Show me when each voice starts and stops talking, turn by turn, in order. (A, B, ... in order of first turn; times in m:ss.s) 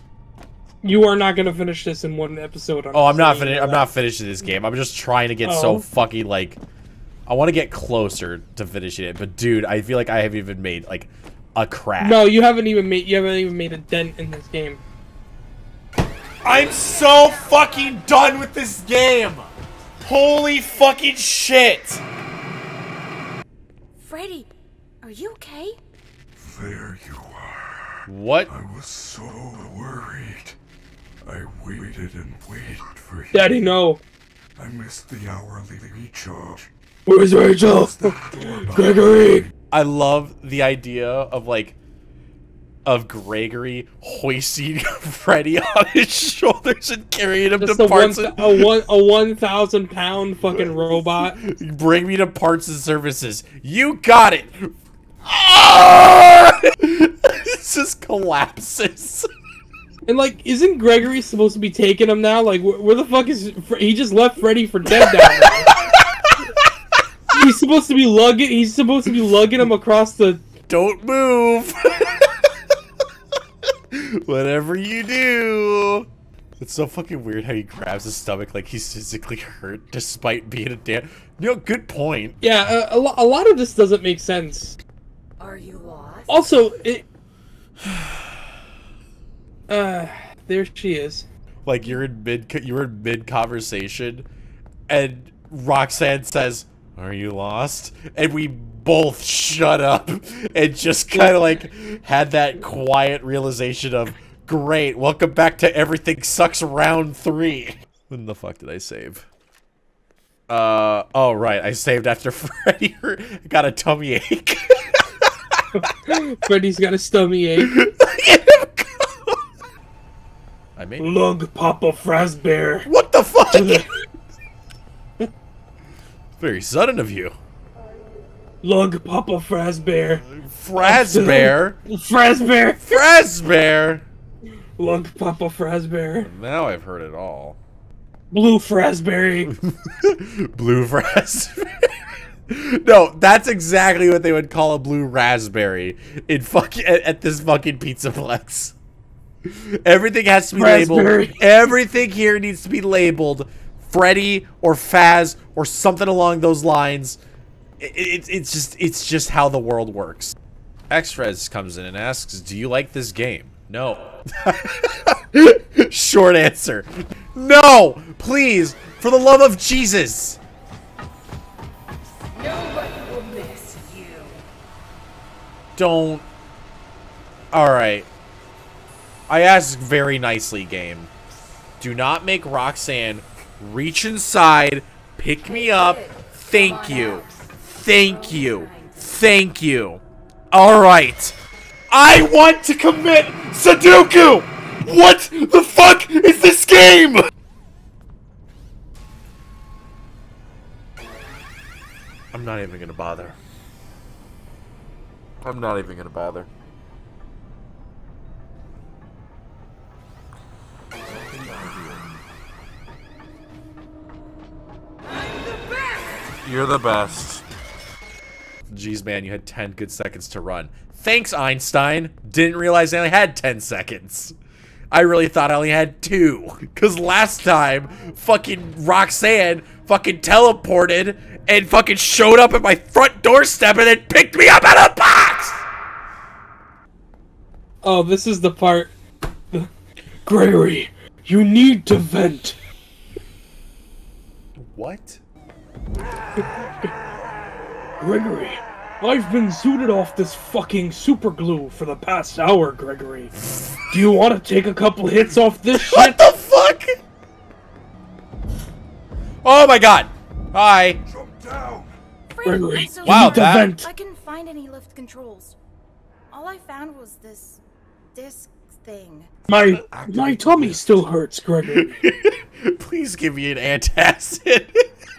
0:00.8-0:03.9 A
0:02.9-0:06.6 B
0:05.4-0:05.8 A
0:07.3-0:12.2 B
0:12.0-0:14.8 A
0:16.4-0:19.5 B
0:20.0-0:22.0 B
0:24.0-0:24.5 C
0:25.0-0:25.8 C
0:26.4-0:28.0 D
0:28.0-0:28.5 B
0:28.5-0:30.6 D
0:31.2-0:33.6 D
0:33.3-0:34.0 A
0:34.6-0:36.7 D
0:37.0-0:39.4 A
0:37.6-0:39.5 D
0:39.7-0:41.8 B
0:42.8-0:48.7 B
0:47.6-0:51.4 A
0:50.5-0:54.7 B
0:55.2-0:59.3 B
1:00.0-1:05.7 A
1:05.1-1:06.7 B
1:07.3-1:10.4 A
1:10.7-1:12.4 B
1:13.9-1:16.1 B
1:16.6-1:22.4 B
1:22.4-1:24.8 A
1:25.4-1:26.7 C
1:26.3-1:27.0 A
1:27.8-1:28.1 B
1:29.7-1:31.2 A
1:31.6-1:34.3 B
1:34.9-1:49.3 B
1:41.1-1:41.5 A
1:50.5-1:55.6 B
1:55.8-1:57.7 A
1:57.6-1:59.4 B
2:00.8-2:01.1 B
2:01.0-2:02.9 A
2:02.8-2:03.9 B
2:03.5-2:03.9 A
2:06.4-2:07.4 B
2:08.6-2:10.2 A
2:10.3-2:11.8 B
2:10.8-2:13.0 A
2:12.8-2:14.0 B
2:14.8-2:16.3 A
2:16.2-2:17.6 B
2:18.3-2:19.6 A
2:19.5-2:28.7 B
2:29.4-2:37.2 B
2:30.6-2:31.4 A
2:37.8-2:40.3 B
2:40.9-2:50.4 B
2:52.3-2:54.4 C
2:55.8-2:56.2 B
2:57.5-2:58.1 B
2:59.3-3:01.1 B
3:01.8-3:11.4 B
3:05.6-3:09.0 C
3:11.9-3:17.3 B
3:22.3-3:23.4 B
3:25.4-3:26.5 B
3:31.5-3:32.0 B
3:35.0-3:36.2 C
3:36.2-3:37.4 B
3:38.7-3:44.3 B
3:44.9-3:55.6 B
3:57.8-3:58.9 A
4:00.2-4:02.6 A
4:04.6-4:05.2 B
4:08.0-4:16.3 A
4:15.7-4:17.0 B
4:19.4-4:21.0 B
4:21.1-4:22.0 D
4:22.3-4:25.6 C
4:22.4-4:23.9 A
4:23.0-4:23.7 B
4:26.3-4:27.6 C
4:28.1-4:29.3 C
4:29.5-4:32.0 A
4:29.9-4:30.7 D
4:30.2-4:30.8 B
4:31.6-4:34.9 B